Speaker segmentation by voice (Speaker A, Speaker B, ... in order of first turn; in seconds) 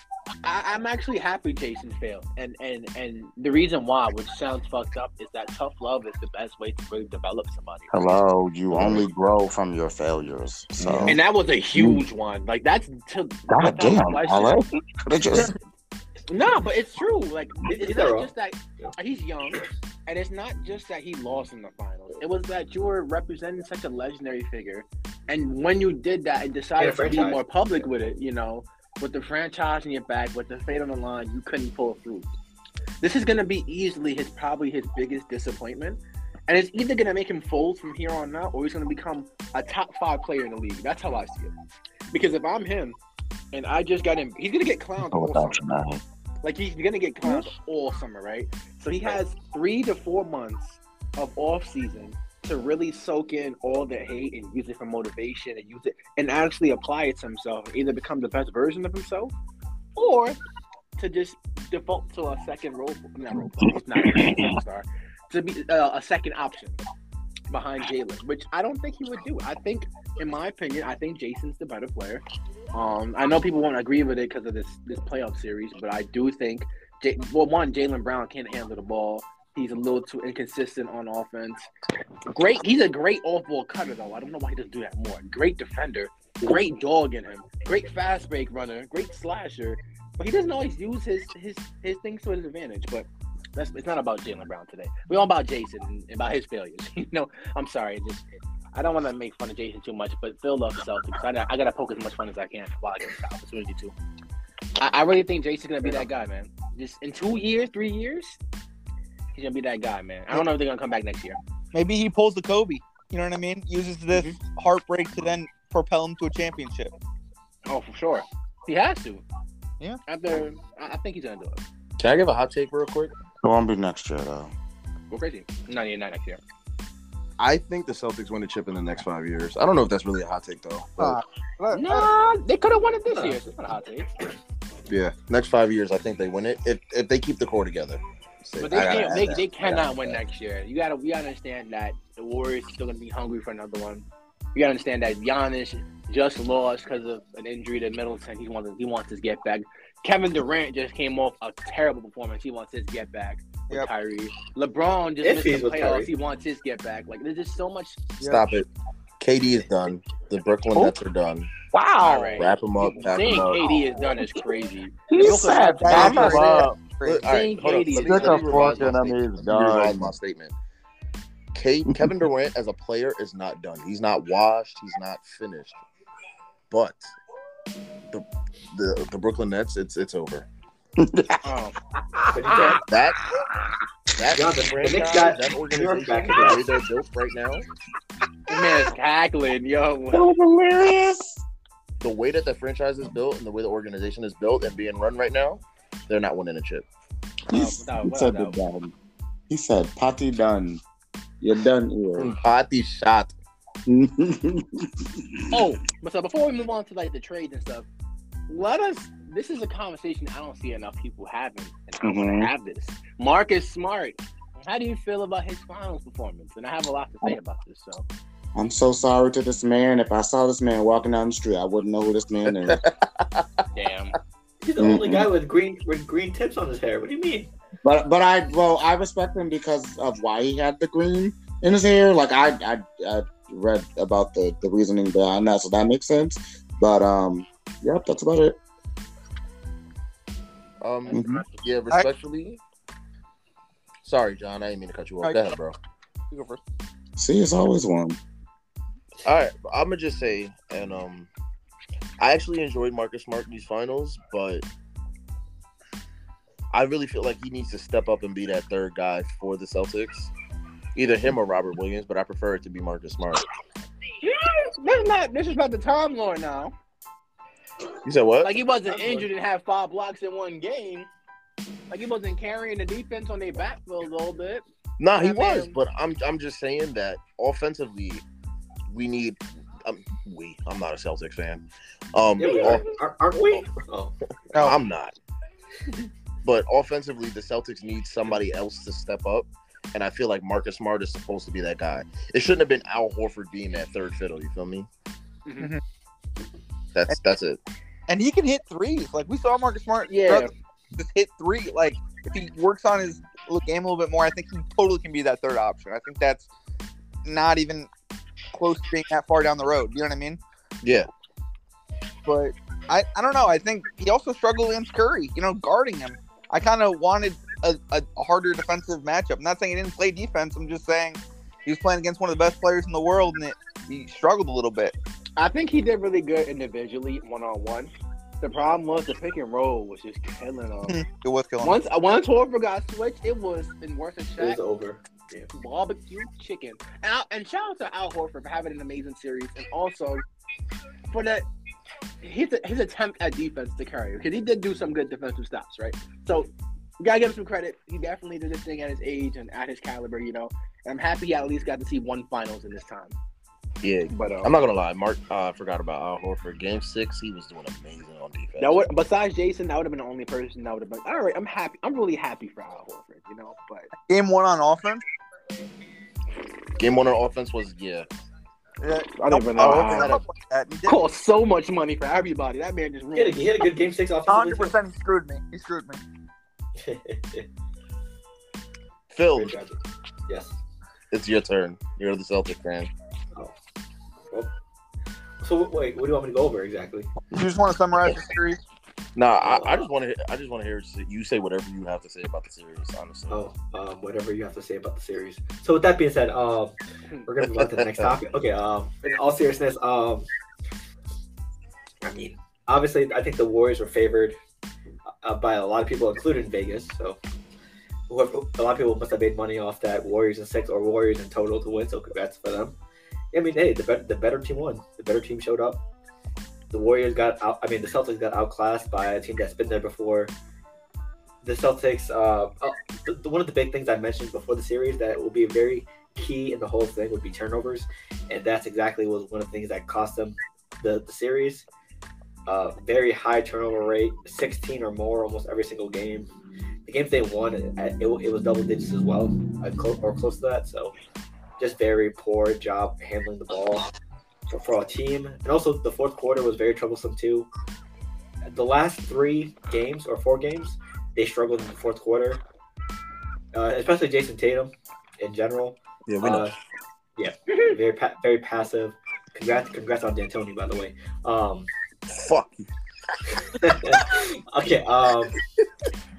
Speaker A: 0.4-7.9, 11.1-14.6, 16.3-32.3, 33.0-41.5, 42.1-43.0, 43.5-45.6, 46.4-59.4, 60.0-60.4, 61.0-66.8, 67.5-81.7, 82.3-103.9, 104.8-108.4, 109.3-111.4, 117.7-119.2, 120.1-121.6, 125.1-126.4, 131.7-134.1, 138.6-158.0, 162.0-166.5, 167.2-169.0, 181.4-181.8, 182.5-182.8, 188.5-190.3, 197.5-198.6, 205.5-207.9, 208.5-218.1, 223.7-224.2, 264.2-266.7, 268.4-271.1, 271.9-274.6, 275.2-275.8, 282.4-282.8, 295.5-295.7, 300.1-300.5, 325.4-331.0, 331.6-334.6, 335.5-340.2, 341.1-341.5, 342.2-353.1, 354.1-354.5, 358.6-363.9, 369.1-370.2, 370.9-373.5, 457.5-457.7
Speaker B: 7.9-11.2, 11.7-12.1, 13.5-15.5, 45.0-46.0, 63.6-64.6, 123.4-124.5, 161.7-162.5, 165.1-166.8, 167.9-170.2, 171.9-172.2, 181.0-181.5, 182.2-182.8, 190.1-191.4, 197.5-198.9, 199.5-200.8, 201.4-202.3, 203.9-205.6, 212.0-212.5, 218.6-222.8, 224.8-225.3, 227.8-238.6, 241.1-241.4, 247.2-248.2
Speaker C: 8.7-9.0, 10.8-11.2, 122.0-123.1, 127.4-131.2, 134.9-140.2, 158.2-158.7, 159.2-161.5, 162.4-163.8, 165.9-170.6, 171.5-175.8, 176.7-177.1, 178.1-180.5, 182.9-183.2, 184.2-187.7, 192.0-196.8, 202.2-203.3, 222.5-223.6, 240.8-242.6, 244.0-245.8, 249.2-251.3, 252.2-254.7, 256.7-260.3, 260.9-263.4, 268.0-268.6, 275.0-278.2, 278.9-282.9, 284.6-285.1, 286.4-294.9, 296.9-297.6, 310.8-311.1, 353.8-358.8, 366.8-368.1, 369.6-370.2, 379.1-379.6, 381.1-382.9, 389.2-393.4, 397.4-398.1, 456.1-456.5, 462.1-462.6
Speaker D: 17.7-18.9, 26.8-27.4, 133.1-133.4, 155.2-156.1, 182.3-182.8, 184.3-186.7, 224.6-227.5, 268.9-269.2, 282.4-284.1, 334.4-335.5, 373.1-374.8, 376.8-377.5, 379.4-380.6, 385.4-387.1, 389.4-389.9, 393.3-400.3, 402.0-404.4, 405.2-407.2, 408.1-412.8, 413.3-415.8, 416.7-420.3, 421.4-431.6, 432.5-436.3, 436.9-440.9, 441.6-443.9, 444.5-447.5, 448.5-452.4, 453.5-456.5, 457.2-461.7, 463.6-465.4
Speaker E: 47.2-47.5, 111.7-116.9, 131.0-132.1, 158.2-158.5, 165.8-167.3, 245.2-245.5, 246.3-246.6, 298.1-306.5, 307.2-307.9, 308.5-310.4, 312.2-324.9, 330.9-331.8, 364.0-365.0, 368.8-371.0, 374.3-376.0, 387.3-388.6